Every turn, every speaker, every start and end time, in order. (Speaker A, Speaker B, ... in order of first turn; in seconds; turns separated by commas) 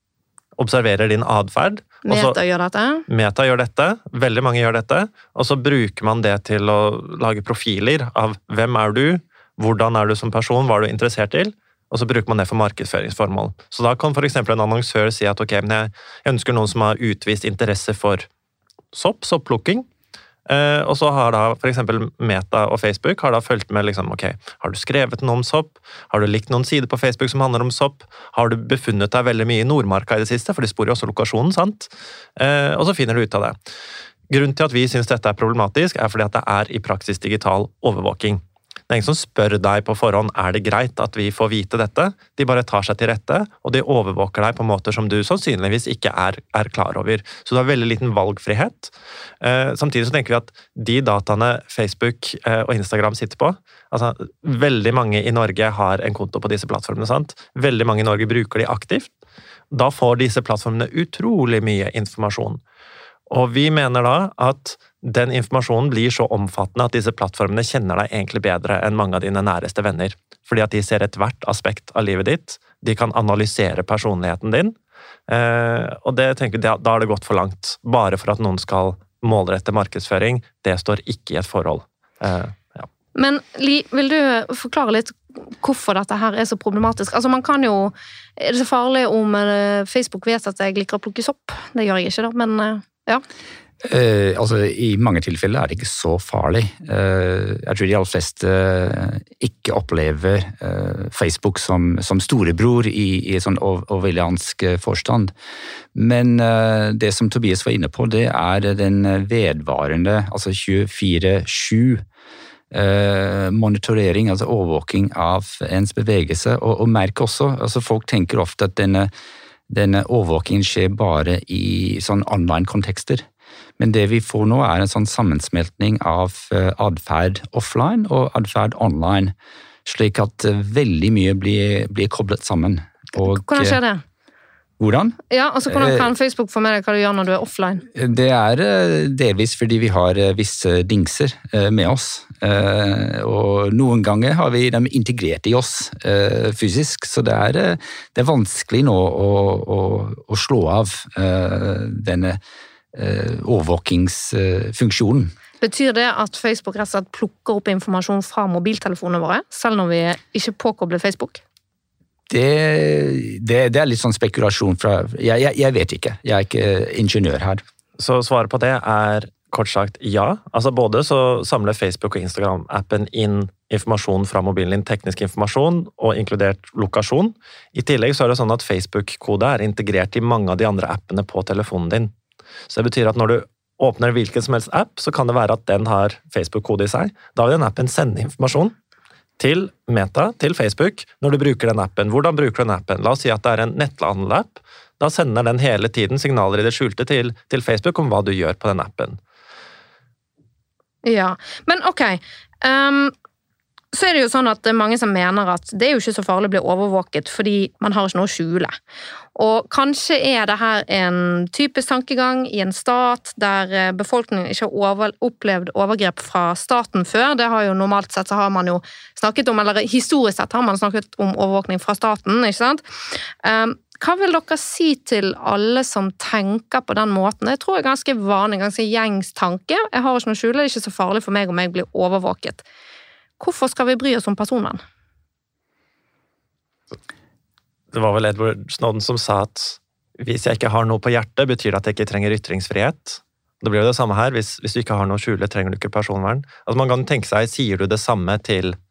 Speaker A: 0.6-2.4, Speaker B: 2.1-3.0, Speaker A: 3.1-18.3, Speaker A: 18.9-19.9, Speaker A: 20.5-33.6, Speaker A: 34.3-59.1, Speaker A: 59.7-62.6, Speaker A: 63.3-74.8, Speaker A: 75.3-82.9, Speaker B: 83.2-93.2, Speaker C: 93.8-105.3, Speaker C: 105.9-112.0, Speaker C: 112.7-119.1, Speaker C: 119.7-123.2, Speaker C: 123.8-129.3, Speaker C: 129.9-133.8, Speaker B: 133.2-134.0, Speaker C: 134.8-136.1, Speaker B: 135.3-137.8, Speaker C: 137.9-152.4, Speaker C: 152.9-155.3, Speaker B: 155.6-161.4, Speaker C: 162.3-167.6, Speaker A: 168.0-182.1, Speaker A: 182.7-188.8, Speaker A: 189.4-199.2, Speaker B: 201.0-203.1, Speaker B: 203.9-208.8, Speaker B: 209.3-232.7, Speaker B: 233.4-234.8, Speaker A: 237.9-248.8